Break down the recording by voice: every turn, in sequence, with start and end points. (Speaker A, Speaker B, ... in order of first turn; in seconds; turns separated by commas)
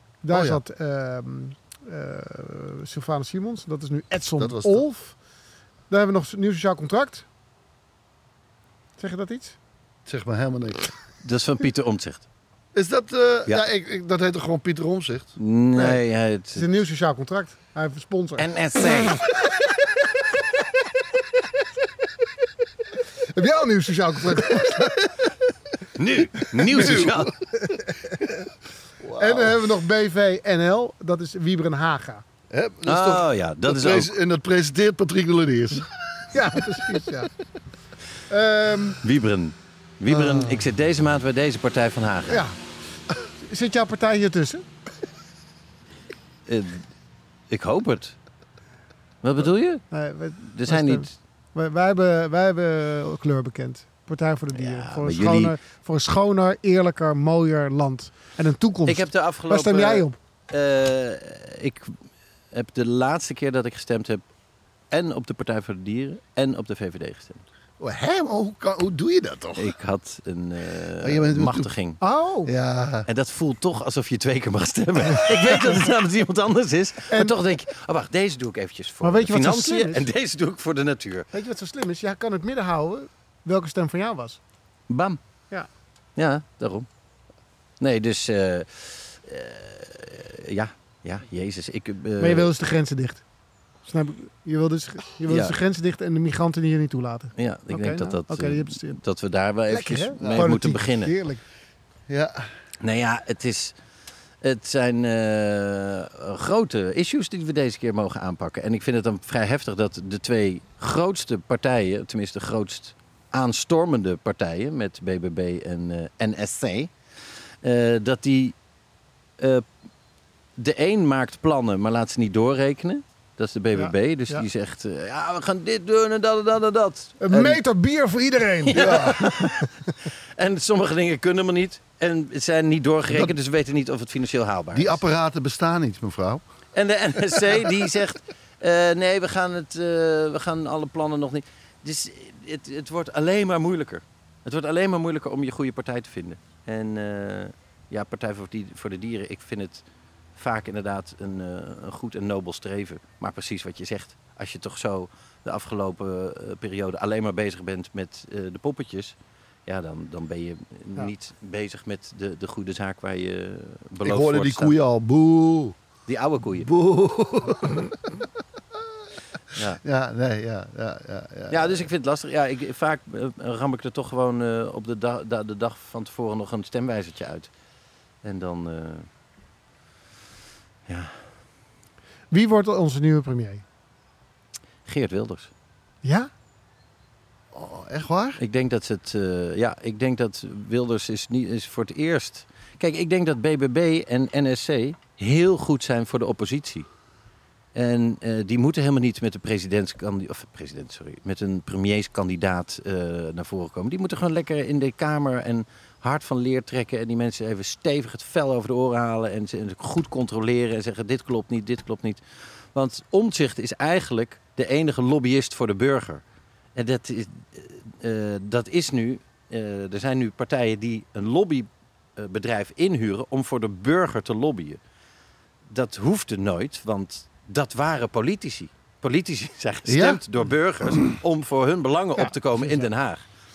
Speaker A: 0.2-5.2, Speaker B: 0.3-0.6, Speaker B: 4.4-4.8, Speaker A: 5.9-7.2, Speaker A: 9.0-9.6, Speaker B: 10.1-10.9, Speaker C: 11.2-12.2, Speaker B: 12.7-15.3, Speaker C: 15.4-16.6, Speaker A: 16.5-18.4, Speaker C: 18.4-19.2, Speaker A: 23.3-25.0, Speaker C: 25.9-27.3, Speaker B: 26.6-27.3, Speaker A: 27.6-28.3, Speaker B: 29.0-29.6, Speaker A: 29.2-32.2, Speaker B: 32.5-35.9, Speaker C: 32.9-34.1, Speaker A: 36.3-37.3, Speaker A: 38.3-39.0, Speaker C: 39.0-42.4, Speaker B: 40.1-40.7, Speaker A: 42.3-42.5, Speaker A: 43.4-44.6, Speaker C: 46.5-46.8, Speaker C: 47.5-48.1, Speaker C: 49.2-49.8, Speaker A: 49.9-60.1, Speaker C: 50.5-51.1, Speaker C: 54.5-55.5, Speaker C: 58.9-62.0, Speaker C: 62.5-64.2, Speaker C: 64.9-67.4, Speaker B: 67.8-69.7, Speaker C: 69.5-72.0, Speaker B: 71.0-71.7, Speaker A: 72.0-72.5, Speaker B: 72.4-73.1, Speaker C: 73.1-81.3, Speaker A: 77.1-77.3, Speaker A: 79.0-80.1, Speaker A: 81.3-84.4, Speaker C: 84.9-85.2, Speaker C: 86.2-86.9, Speaker C: 87.8-92.5, Speaker A: 92.2-93.2, Speaker A: 93.8-99.0, Speaker C: 95.2-95.5, Speaker C: 97.4-101.1, Speaker A: 99.7-101.4, Speaker B: 100.2-100.5, Speaker B: 102.1-102.5, Speaker C: 102.8-103.7, Speaker C: 104.4-116.9, Speaker C: 117.6-118.5, Speaker C: 119.4-119.6, Speaker C: 120.6-127.6, Speaker A: 123.7-124.4, Speaker A: 127.2-129.7, Speaker C: 128.7-135.0, Speaker B: 128.7-129.3, Speaker B: 134.7-136.4, Speaker C: 136.7-149.8, Speaker C: 150.3-164.7, Speaker B: 164.0-165.8, Speaker C: 166.1-166.7, Speaker B: 166.6-167.9, Speaker C: 169.5-169.8, Speaker B: 169.8-171.9, Speaker C: 171.5-177.5, Speaker C: 178.2-179.1, Speaker C: 180.9-181.1, Speaker A: 182.3-183.6, Speaker C: 184.9-185.5, Speaker A: 186.0-186.3, Speaker B: 187.5-188.4, Speaker C: 188.4-196.9, Speaker C: 197.7-212.2, Speaker C: 212.7-216.2, Speaker C: 216.7-224.8, Speaker C: 225.7-233.2, Speaker B: 229.8-230.2, Speaker A: 232.2-232.9